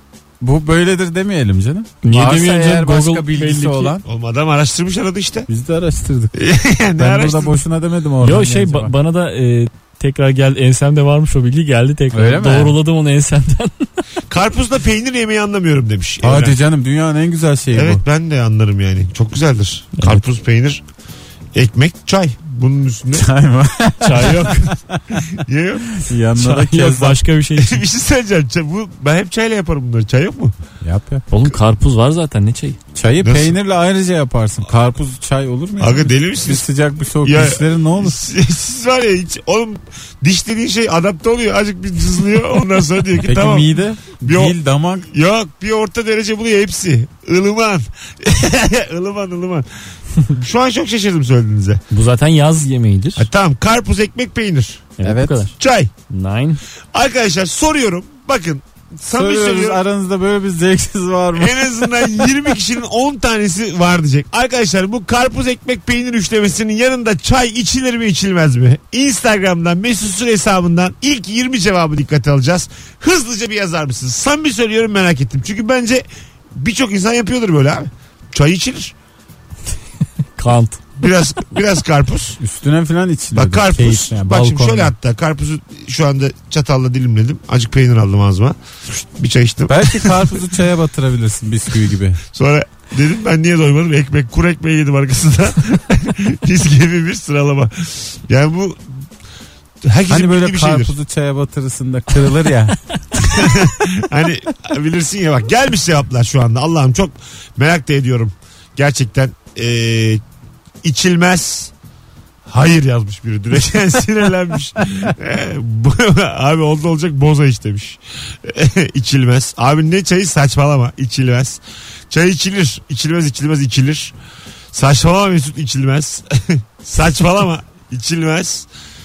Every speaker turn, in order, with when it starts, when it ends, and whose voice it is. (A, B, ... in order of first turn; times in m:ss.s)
0:00.4-0:04.0 A
0:02.0-0:04.0 B
0:04.0-0:05.5 C
0:05.5-0:06.3 A
0:06.3-0:07.6 C
0:07.0-0:08.9 A
0:08.2-0:13.9 B
0:12.1-0:12.8 A
0:14.3-0:16.6 C
0:16.2-0:18.0 A
0:17.7-0:20.8 C
0:21.5-0:23.3 C
0:23.1-0:25.2 A
0:24.0-0:24.8 B
0:25.3-0:25.9 C
0:26.0-0:27.2 A
0:26.4-0:27.8 B
0:27.6-0:30.5 C
0:30.8-0:31.2 A
0:31.3-0:32.8 B
0:33.0-0:38.2 A
0:33.2-0:33.6 C
0:35.8-0:36.7 C
0:37.2-0:43.7 C
0:43.2-0:45.1 A
0:44.2-0:44.6 C
0:45.1-0:49.7 C
0:50.3-0:51.8 C
0:51.9-0:53.3 B
0:53.2-0:54.9 C
0:55.0-0:55.6 B
0:55.0-0:55.4 A
0:55.6-0:55.9 C
0:56.1-0:56.6 B
0:56.9-0:59.8 C
0:59.1-1:02.2 A
1:01.4-1:18.9 C
1:20.4-1:20.8 B
1:21.0-1:22.4 C
1:22.4-1:24.9 A
1:23.3-1:30.4 C
1:29.7-1:32.2 A
1:32.3-1:38.8 C
1:39.8-1:40.9 C
1:40.1-1:42.8 A
1:43.2-1:50.2 C
1:50.8-1:51.7 C
1:52.5-2:04.1 C
2:04.7-2:08.7 C